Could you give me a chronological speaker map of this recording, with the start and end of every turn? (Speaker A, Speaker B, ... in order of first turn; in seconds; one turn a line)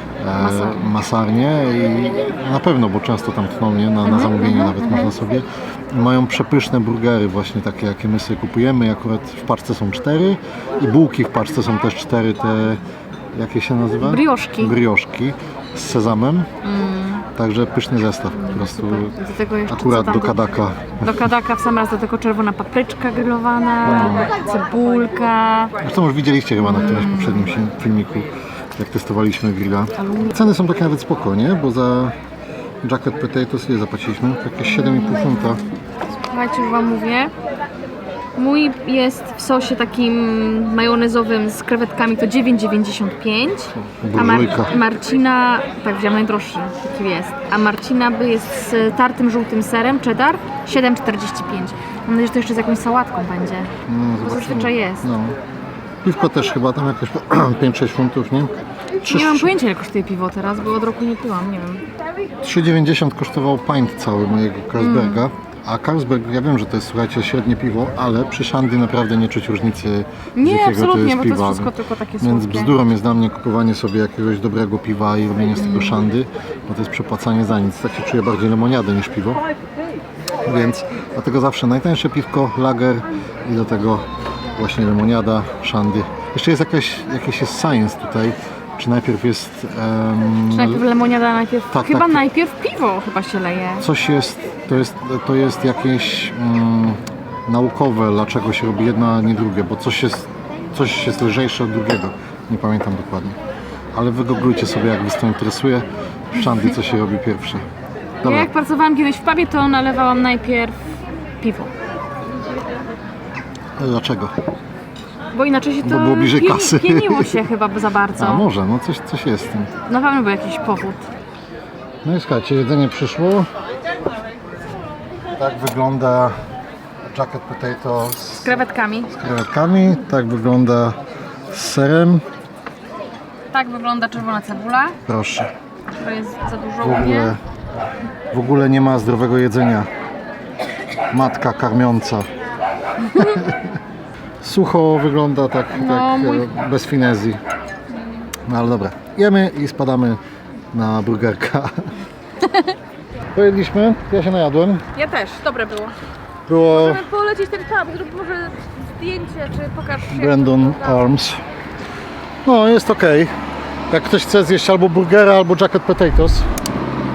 Speaker A: 0.2-12.8
Speaker B: 0.3-1.0
Speaker B: 4.0-5.1
Speaker A: 13.3-16.5
Speaker B: 14.0-14.8
Speaker B: 16.6-17.2
Speaker A: 17.3-19.1
Speaker B: 18.3-25.7
Speaker A: 19.7-21.3
Speaker A: 23.8-24.3
Speaker A: 25.8-32.1
Speaker B: 26.6-27.6
Speaker B: 30.0-30.4
Speaker A: 32.8-35.6
Speaker B: 34.6-37.3
Speaker B: 38.4-53.7
Speaker A: 43.8-44.8
Speaker A: 53.9-55.4
Speaker B: 54.2-55.1
Speaker A: 56.0-58.5
Speaker A: 59.0-59.5
Speaker B: 59.0-61.8
Speaker A: 62.4-79.4
Speaker B: 64.8-65.2
Speaker B: 70.3-72.8
Speaker B: 75.5-76.0
Speaker A: 80.4-90.8
Speaker B: 90.5-93.9
Speaker A: 91.7-92.2
Speaker A: 93.8-103.4
Speaker A: 103.9-107.6
Speaker A: 108.2-108.5
Speaker B: 108.2-110.8
Speaker B: 111.4-111.7
Speaker A: 113.8-114.3
Speaker B: 115.3-118.5
Speaker A: 115.8-117.4
Speaker A: 118.2-119.7
Speaker B: 119.9-121.0
Speaker A: 122.0-123.5
Speaker A: 125.3-126.3
Speaker A: 127.1-131.0
Speaker B: 128.4-129.1
Speaker A: 131.5-132.2
Speaker B: 133.5-135.0
Speaker A: 135.1-135.5
Speaker B: 135.9-137.3
Speaker A: 136.8-137.4
Speaker A: 138.3-139.9
Speaker A: 141.1-142.3
Speaker A: 143.1-143.7
Speaker A: 144.4-147.4
Speaker B: 145.7-146.5
Speaker A: 148.4-150.2
Speaker A: 150.7-151.9
Speaker B: 152.4-152.7
Speaker A: 153.3-154.8
Speaker B: 154.9-155.9
Speaker A: 156.5-157.0
Speaker B: 156.7-161.2
Speaker A: 160.1-161.4
Speaker A: 162.4-163.3
Speaker A: 163.9-166.5